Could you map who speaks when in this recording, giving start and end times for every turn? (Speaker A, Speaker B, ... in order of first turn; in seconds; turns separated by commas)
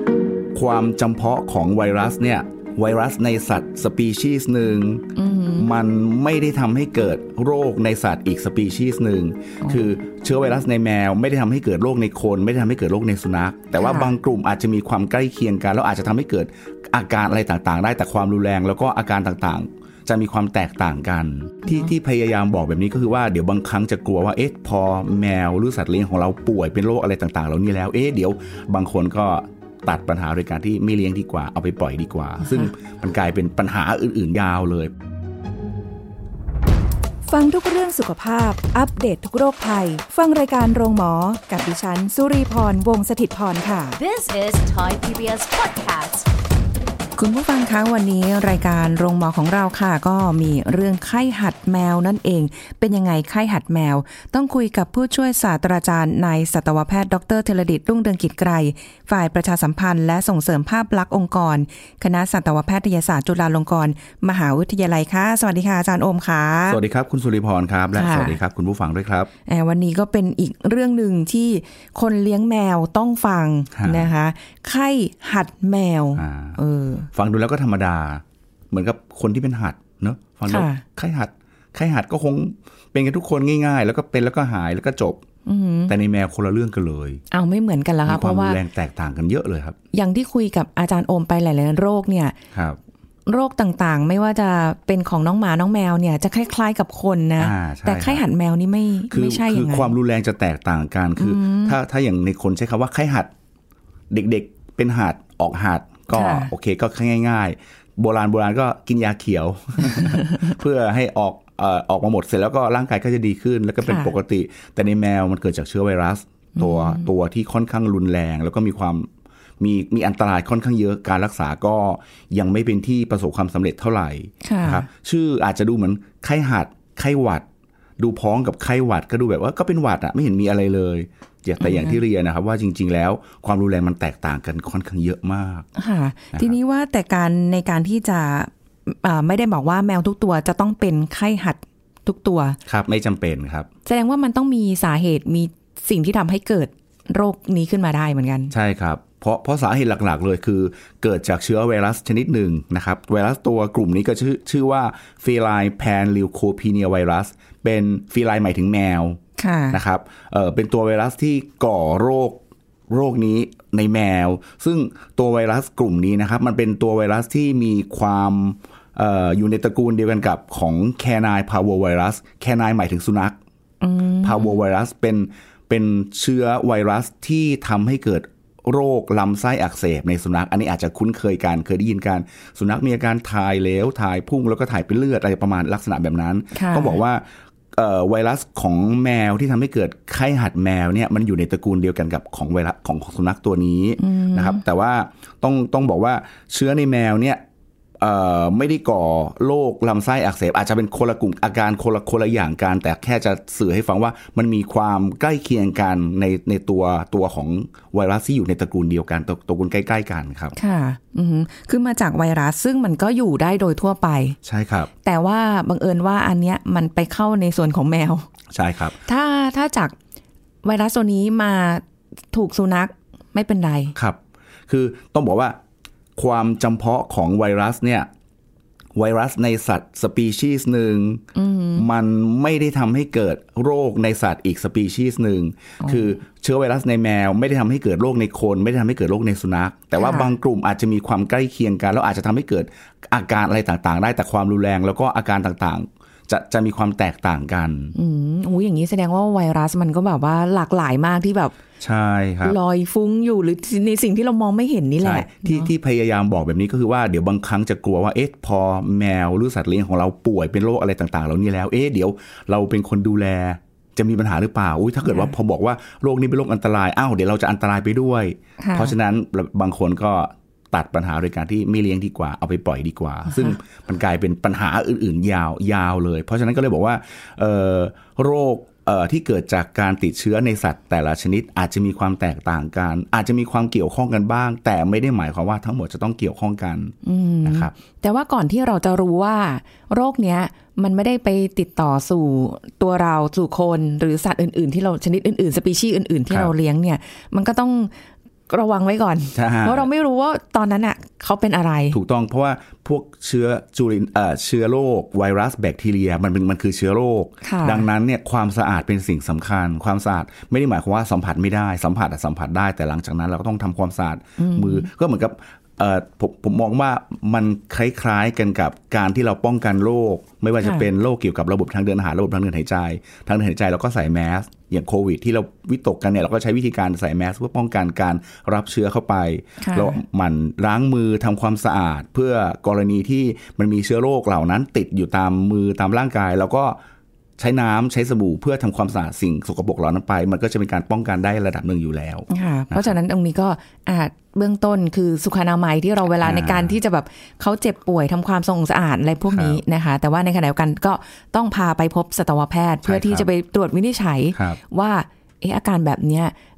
Speaker A: 0.5-34.9, Speaker B: 5.1-5.7, Speaker B: 13.8-14.1, Speaker B: 37.3-44.0, Speaker C: 44.0-46.2, Speaker B: 47.2-66.8, Speaker A: 66.7-69.3, Speaker B: 67.9-68.4, Speaker B: 69.5-77.1, Speaker A: 73.7-74.1, Speaker A: 76.2-76.6, Speaker A: 77.1-85.2, Speaker B: 80.5-80.8, Speaker B: 85.5-85.9, Speaker A: 85.9-87.2, Speaker B: 87.3-88.6, Speaker A: 88.1-89.8, Speaker B: 89.9-92.3, Speaker A: 92.5-92.8, Speaker B: 93.2-99.9, Speaker A: 97.4-98.2, Speaker A: 99.1-103.3, Speaker B: 101.2-101.8, Speaker A: 104.1-119.1, Speaker B: 106.1-106.5, Speaker B: 109.9-110.5, Speaker B: 113.8-114.1, Speaker B: 116.5-117.1, Speaker A: 119.6-127.4, Speaker B: 124.4-124.8, Speaker A: 128.0-135.7, Speaker B: 131.6-132.0, Speaker B: 135.8-142.6, Speaker A: 142.7-143.7, Speaker B: 143.8-148.5, Speaker A: 148.5-159.2, Speaker B: 159.4-159.8, Speaker A: 159.7-173.4, Speaker B: 173.8-174.6, Speaker A: 174.2-197.4, Speaker B: 186.5-187.0, Speaker B: 194.0-194.6, Speaker A: 198.0-210.5, Speaker B: 210.5-214.3, Speaker A: 214.4-214.9, Speaker B: 215.0-218.3, Speaker A: 218.5-218.9, Speaker B: 219.0-219.9, Speaker B: 220.6-223.9, Speaker A: 223.9-225.6, Speaker A: 226.2-228.1, Speaker A: 228.9-231.2, Speaker B: 231.3-231.8, Speaker A: 231.8-247.9, Speaker B: 235.8-236.1, Speaker B: 240.0-240.3, Speaker B: 247.9-251.6, Speaker A: 251.8-252.6, Speaker B: 252.4-255.7, Speaker A: 255.0-287.7, Speaker B: 265.0-265.3, Speaker B: 268.6-268.9, Speaker B: 273.3-273.6, Speaker B: 287.0-297.9, Speaker B: 298.5-302.0, Speaker A: 299.3-299.9, Speaker A: 301.9-336.8, Speaker B: 307.4-307.9, Speaker B: 314.4-314.9, Speaker B: 320.6-320.9, Speaker B: 329.6-330.0, Speaker A: 337.4-342.9, Speaker B: 342.3-356.3, Speaker A: 346.2-346.8, Speaker A: 349.3-349.6, Speaker A: 352.8-353.3